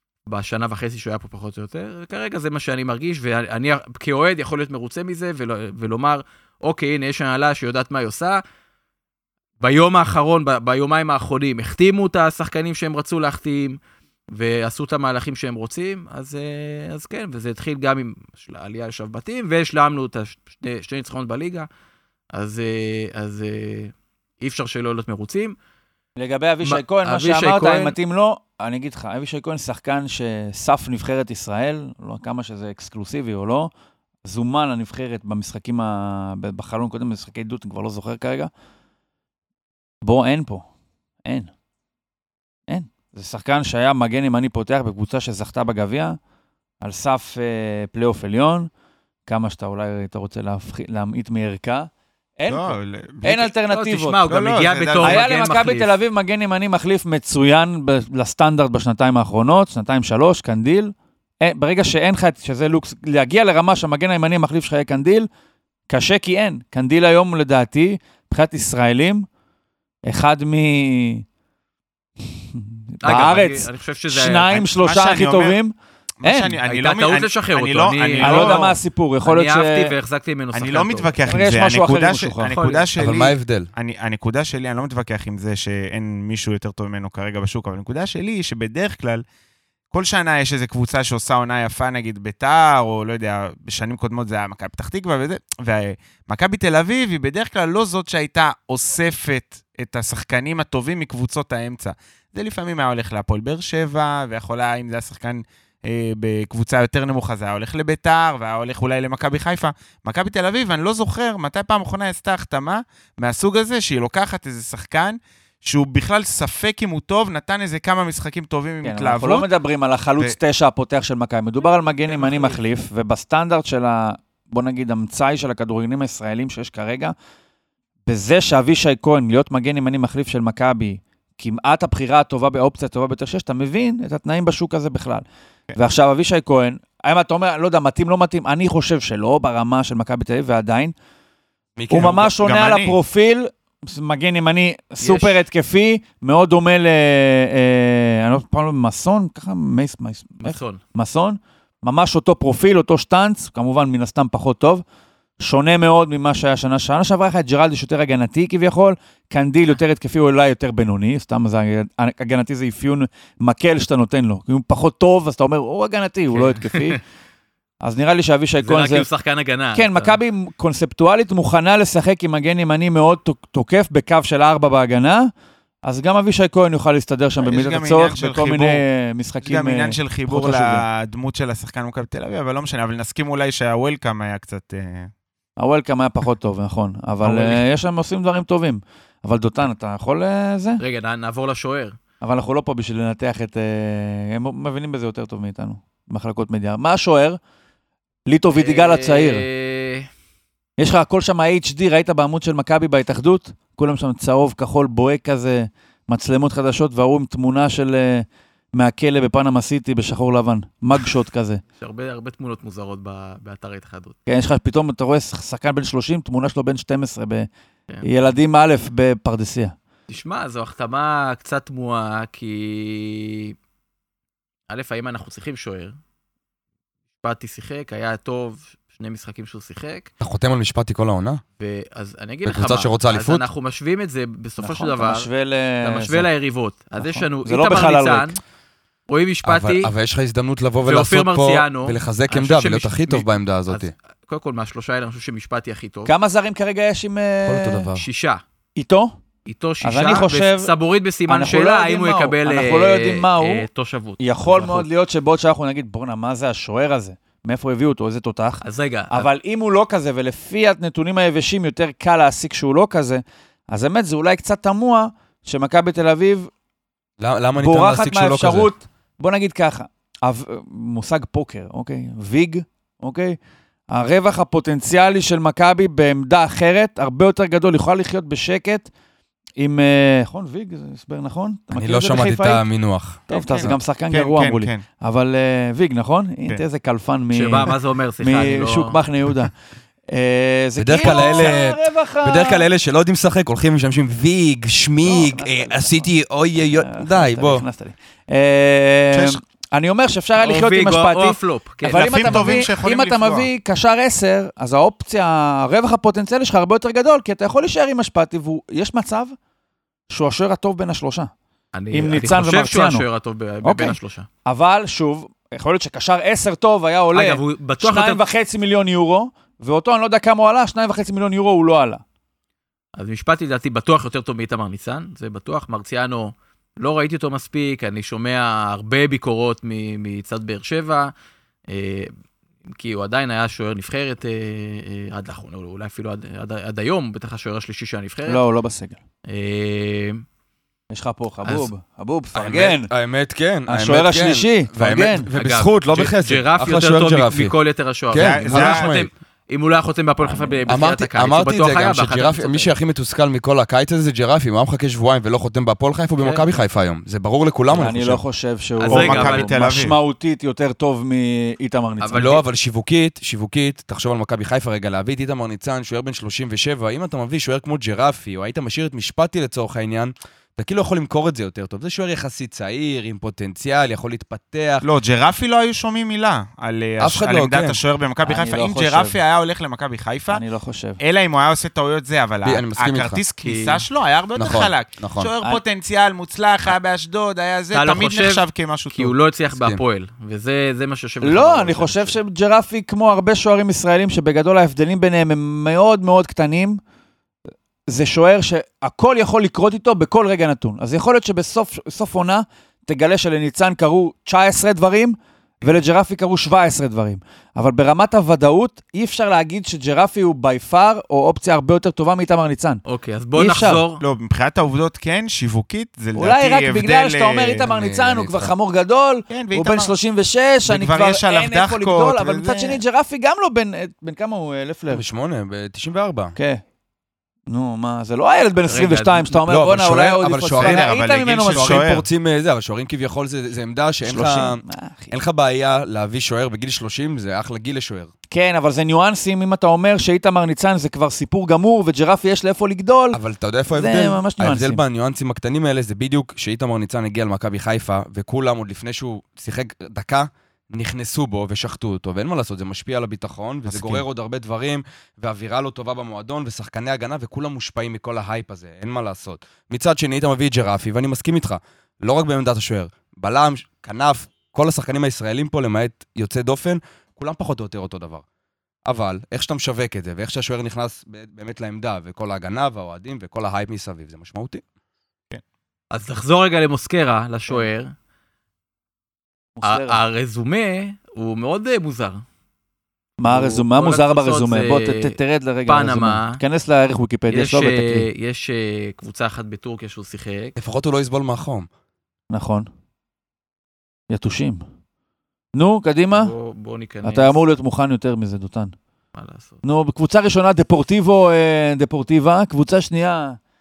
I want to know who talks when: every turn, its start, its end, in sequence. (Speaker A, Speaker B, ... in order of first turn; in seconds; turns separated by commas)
Speaker A: 0.3-8.4, Speaker A: 9.6-13.8, Speaker A: 14.3-21.7, Speaker A: 22.3-25.6, Speaker B: 26.2-33.7, Speaker A: 26.6-28.0, Speaker B: 34.2-38.5, Speaker B: 40.0-40.7, Speaker B: 41.2-41.5, Speaker B: 42.7-46.2, Speaker B: 46.8-48.7, Speaker B: 49.3-54.2, Speaker C: 52.5-53.5, Speaker A: 53.6-56.0, Speaker C: 54.2-55.3, Speaker B: 55.0-65.3, Speaker B: 65.9-69.3, Speaker B: 70.1-71.2, Speaker B: 72.2-76.6, Speaker A: 73.0-74.7, Speaker C: 74.7-75.6, Speaker C: 76.2-78.8, Speaker A: 76.7-81.2, Speaker B: 78.2-79.9, Speaker C: 80.5-89.2, Speaker B: 81.3-82.5, Speaker A: 82.5-82.9, Speaker D: 83.0-83.7, Speaker C: 89.9-119.5, Speaker B: 118.8-127.1, Speaker A: 122.2-122.5, Speaker B: 128.1-135.2, Speaker B: 135.8-140.9, Speaker D: 141.8-142.3, Speaker B: 141.9-154.8, Speaker C: 142.0-143.0, Speaker A: 145.0-145.4, Speaker A: 150.4-150.8, Speaker B: 155.4-167.0, Speaker A: 166.3-167.0, Speaker B: 167.8-169.1, Speaker A: 168.6-170.2, Speaker B: 169.7-175.3, Speaker B: 175.8-180.9, Speaker C: 177.4-178.8, Speaker C: 179.4-185.1, Speaker B: 185.6-190.8, Speaker A: 190.8-192.0, Speaker B: 192.2-197.4, Speaker B: 198.3-199.5, Speaker A: 198.5-200.1, Speaker B: 200.8-211.6, Speaker A: 211.8-214.2, Speaker B: 214.3-217.5, Speaker B: 218.0-219.7, Speaker A: 220.1-223.6, Speaker A: 224.7-226.0, Speaker A: 227.2-230.1, Speaker D: 230.2-231.4, Speaker A: 231.6-235.3, Speaker D: 232.5-233.4, Speaker B: 234.6-236.3, Speaker A: 235.8-238.4, Speaker B: 237.0-238.4, Speaker A: 239.1-239.9, Speaker D: 239.4-243.9, Speaker A: 240.9-246.1, Speaker B: 246.1-247.9, Speaker D: 247.5-248.0, Speaker A: 248.0-248.4, Speaker B: 248.8-249.2, Speaker A: 249.5-254.9, Speaker B: 249.8-250.7, Speaker B: 251.3-253.7, Speaker B: 254.2-266.5, Speaker A: 258.6-259.3, Speaker D: 267.2-268.7, Speaker B: 267.6-273.4, Speaker B: 273.9-278.9, Speaker B: 279.6-282.6, Speaker D: 281.7-283.8, Speaker B: 283.3-289.5, Speaker C: 283.3-284.8, Speaker A: 287.3-289.0, Speaker B: 290.1-292.7, Speaker D: 290.8-297.6, Speaker B: 295.0-309.4, Speaker C: 299.1-299.4, Speaker A: 300.4-302.6, Speaker C: 301.9-303.5, Speaker B: 310.1-311.3, Speaker A: 311.7-314.3, Speaker B: 311.9-313.1, Speaker B: 313.6-322.0, Speaker A: 317.1-318.2, Speaker A: 323.0-331.1, Speaker A: 331.7-332.1, Speaker A: 332.7-338.4, Speaker B: 338.3-339.0, Speaker A: 339.3-340.2, Speaker B: 340.9-342.9, Speaker A: 341.4-341.7, Speaker D: 342.4-347.5, Speaker B: 343.7-345.3, Speaker A: 345.3-352.7, Speaker D: 348.1-349.1, Speaker C: 348.2-348.9, Speaker B: 350.2-350.6, Speaker D: 350.7-358.2, Speaker A: 356.2-356.5, Speaker B: 357.7-362.4, Speaker A: 358.8-359.5, Speaker C: 358.9-360.0, Speaker A: 362.0-362.3, Speaker D: 362.1-374.9, Speaker C: 374.8-380.4, Speaker D: 377.0-377.8, Speaker B: 378.2-379.2, Speaker B: 380.3-381.0, Speaker C: 381.0-389.1, Speaker D: 382.4-383.2, Speaker A: 383.4-383.8, Speaker D: 384.4-385.3, Speaker A: 387.7-392.2, Speaker B: 391.2-396.8, Speaker B: 397.9-412.8, Speaker A: 412.9-414.0, Speaker B: 413.4-413.8, Speaker C: 414.0-417.6, Speaker B: 416.2-425.0, Speaker D: 417.6-418.5, Speaker C: 419.3-419.9, Speaker C: 420.7-422.8, Speaker D: 424.9-426.4, Speaker B: 426.4-426.6, Speaker B: 427.5-431.8, Speaker A: 428.7-429.4, Speaker D: 429.4-438.1, Speaker C: 430.6-432.1, Speaker B: 434.1-435.1, Speaker B: 438.3-443.2, Speaker D: 443.1-468.2, Speaker B: 443.7-444.8, Speaker B: 453.7-454.0, Speaker D: 468.9-474.6, Speaker A: 475.9-477.9, Speaker B: 479.6-480.0, Speaker A: 479.6-482.2, Speaker B: 483.2-488.1, Speaker A: 483.3-486.4, Speaker A: 487.3-490.6, Speaker D: 490.6-491.7, Speaker B: 492.3-492.7, Speaker B: 494.1-494.6, Speaker B: 495.6-496.3, Speaker A: 496.1-497.4, Speaker B: 497.0-498.7, Speaker A: 499.1-499.6, Speaker B: 499.6-503.4